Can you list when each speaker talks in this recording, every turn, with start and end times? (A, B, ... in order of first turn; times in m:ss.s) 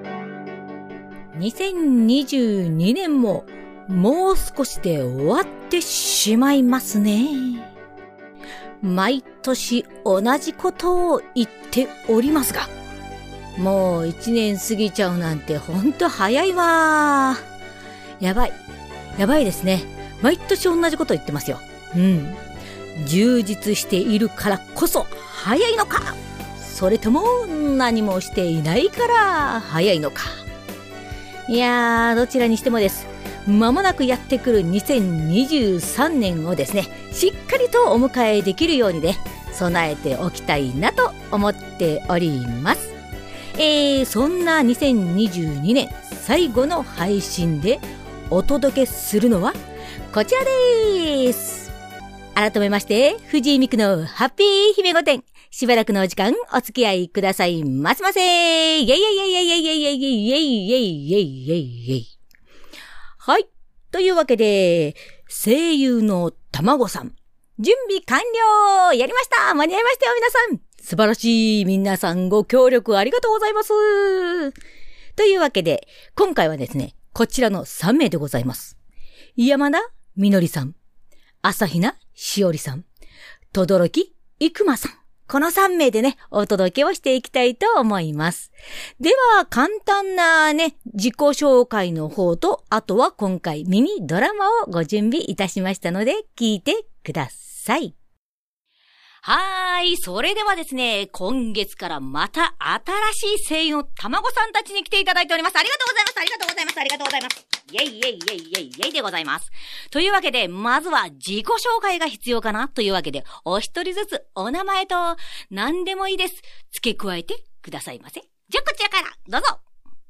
0:01.4-0:07.7 A
0:08.8-0:12.7 A
0:13.6-0:17.4 A
0:18.2-0:18.6 A
0:19.2-0:22.4 A
0:23.0-0:30.4 A
0:31.5-0:42.9 A
0:43.6-0:49.6 A
0:50.1-0:51.7 A
0:52.4-1:02.1 A
1:03.2-1:14.5 A
1:15.2-1:18.8 A
1:19.4-1:20.8 A
1:21.4-1:22.8 A
1:23.5-1:38.0 A
1:39.2-1:59.6 A